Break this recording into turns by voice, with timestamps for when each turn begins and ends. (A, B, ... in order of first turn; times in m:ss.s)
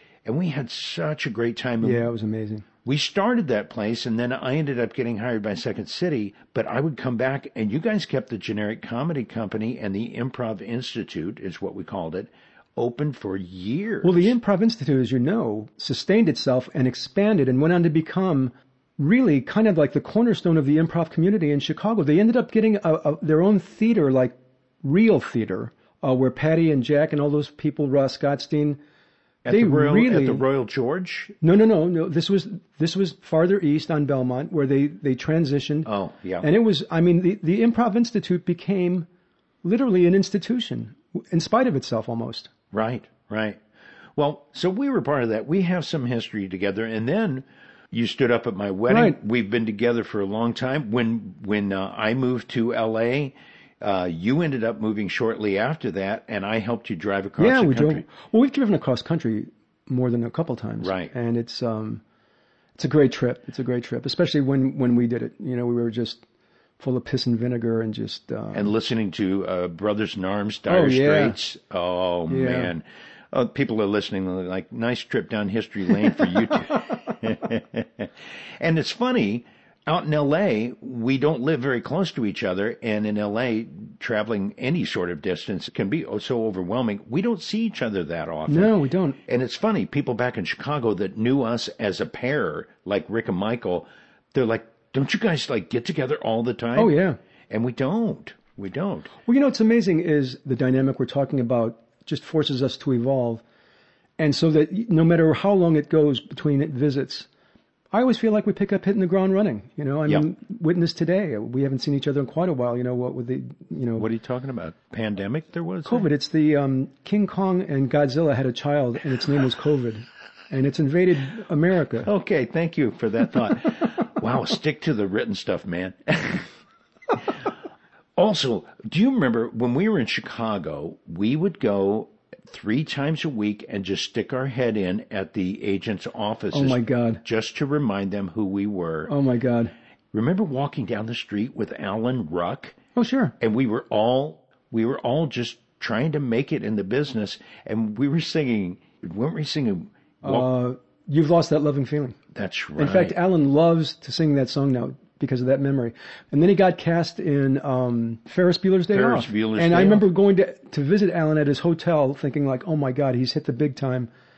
0:00.3-0:02.1 A
0:01.8-0:02.6 B
0:02.8-0:14.4 A
0:14.0-0:28.8 B
0:29.4-0:31.3 A
0:29.5-0:30.4 B
0:31.4-0:35.9 B
0:35.8-0:36.5 A
0:36.4-0:39.1 B
0:39.6-0:42.5 B
0:42.7-0:43.6 A
0:44.2-0:58.0 A
0:48.9-0:49.2 B
0:57.4-1:02.0 B
1:00.8-1:01.1 A
1:02.8-1:06.2 B
1:06.8-1:08.7 B
1:08.5-1:37.0 A
1:10.7-1:11.4 B
1:12.3-1:12.7 B
1:28.5-1:29.2 B
1:36.8-1:37.2 B
1:37.5-1:39.1 A
1:39.3-1:43.4 B
1:44.2-1:47.3 B
1:47.9-1:54.1 B
1:54.0-1:56.1 A
1:55.8-2:02.1 B
2:02.0-2:06.5 A
2:08.2-2:19.1 A
2:16.5-2:17.2 B
2:19.1-2:19.7 B
2:20.1-2:22.8 A
2:23.0-2:23.3 B
2:23.4-2:30.5 A
2:30.2-2:32.2 B
2:32.3-2:33.2 A
2:32.8-2:44.1 B
2:38.9-2:40.1 A